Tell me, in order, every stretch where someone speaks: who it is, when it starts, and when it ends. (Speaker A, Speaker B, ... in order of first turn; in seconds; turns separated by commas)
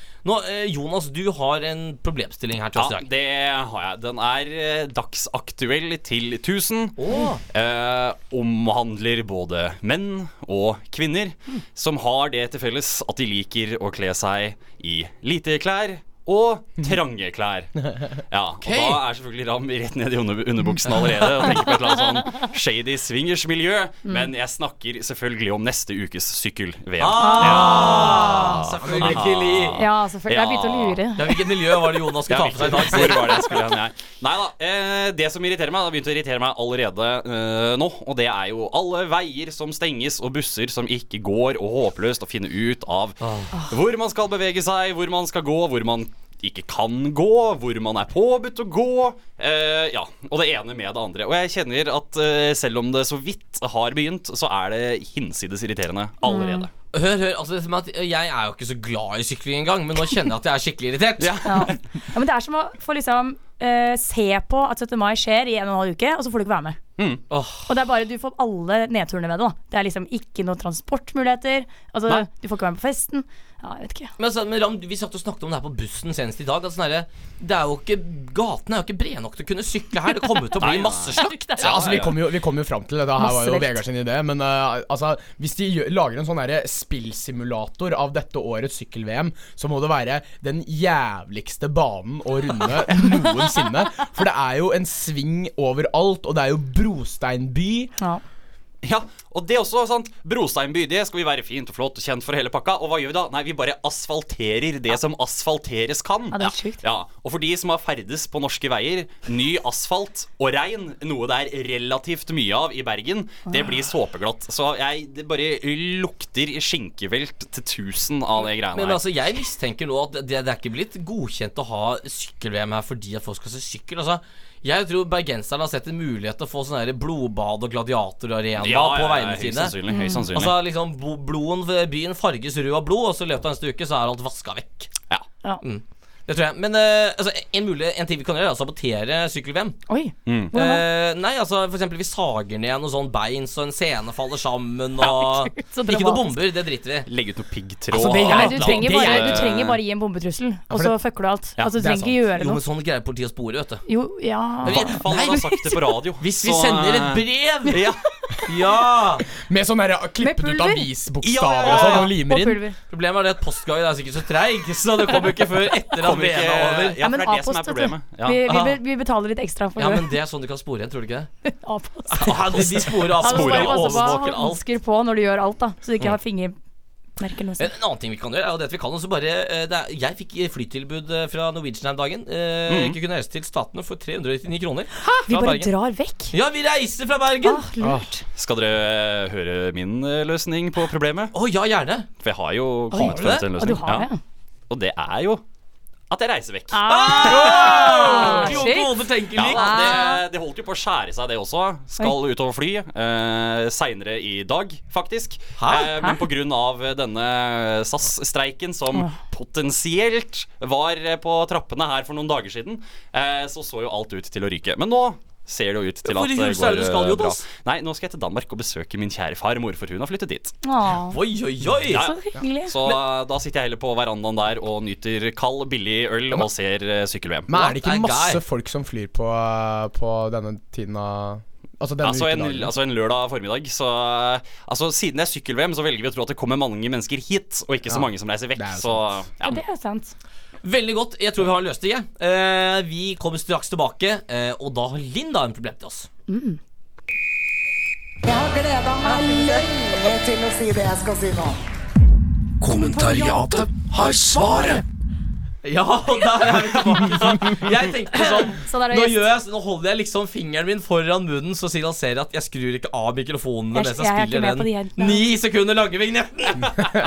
Speaker A: 0.2-3.0, Speaker B: 2.7-7.0, Speaker A: 7.0-7.4, Speaker B: 7.5-31.0, Speaker A: 18.6-19.0, Speaker A: 27.0-29.8, Speaker C: 27.2-28.6, Speaker C: 29.8-31.3, Speaker A: 31.1-33.5, Speaker B: 32.3-56.7, Speaker A: 43.2-43.5, Speaker C: 56.2-56.6, Speaker A: 56.9-61.4, Speaker B: 61.2-61.8, Speaker C: 61.4-66.8, Speaker A: 67.3-67.7, Speaker C: 67.7-74.1, Speaker A: 74.2-81.8, Speaker B: 80.6-82.2, Speaker C: 81.2-81.7, Speaker D: 81.6-97.9, Speaker C: 83.2-83.8, Speaker B: 98.8-119.0, Speaker C: 106.3-106.8, Speaker A: 118.7-134.9, Speaker B: 128.6-130.6, Speaker C: 129.9-130.2, Speaker A: 135.6-139.8, Speaker C: 139.9-140.8, Speaker B: 140.2-140.5, Speaker A: 140.5-147.1, Speaker C: 145.0-146.3, Speaker B: 147.1-149.8, Speaker D: 147.9-149.5, Speaker C: 148.1-152.6, Speaker D: 150.7-150.9, Speaker D: 151.7-152.2, Speaker A: 152.3-153.8, Speaker C: 153.9-155.0, Speaker A: 154.6-155.6, Speaker B: 154.6-158.0, Speaker A: 156.2-157.8, Speaker A: 158.5-159.2, Speaker D: 159.4-162.6, Speaker C: 160.2-160.9, Speaker B: 161.2-162.1, Speaker A: 161.6-162.1, Speaker C: 161.7-162.8, Speaker A: 162.9-167.0, Speaker B: 165.9-168.4, Speaker C: 167.0-170.1, Speaker A: 168.4-168.8, Speaker A: 169.8-171.3, Speaker C: 171.4-176.5, Speaker A: 172.1-174.6, Speaker B: 172.5-174.2, Speaker C: 177.2-177.7, Speaker A: 177.6-185.7, Speaker B: 182.7-183.0, Speaker C: 185.2-186.3, Speaker A: 186.3-187.6, Speaker C: 187.4-188.2, Speaker B: 188.3-191.3, Speaker A: 191.3-192.1, Speaker B: 192.2-194.1, Speaker A: 192.9-193.8, Speaker C: 192.9-194.2, Speaker B: 194.7-195.4, Speaker B: 196.1-198.6, Speaker C: 196.7-198.9, Speaker A: 196.8-200.1, Speaker B: 199.3-220.5, Speaker C: 199.5-200.2, Speaker A: 205.6-206.1, Speaker A: 216.1-217.4, Speaker C: 220.6-221.2, Speaker A: 221.1-222.1, Speaker B: 221.9-227.5, Speaker C: 221.9-222.7, Speaker D: 227.5-232.7, Speaker A: 227.5-228.4, Speaker B: 232.0-239.6, Speaker D: 237.9-239.2, Speaker C: 239.4-240.1, Speaker A: 240.6-246.1, Speaker C: 246.3-246.6, Speaker E: 248.2-251.6, Speaker C: 249.0-249.7, Speaker F: 252.6-254.8, Speaker C: 253.0-253.3, Speaker A: 255.6-266.9, Speaker C: 258.1-259.3, Speaker C: 263.7-265.2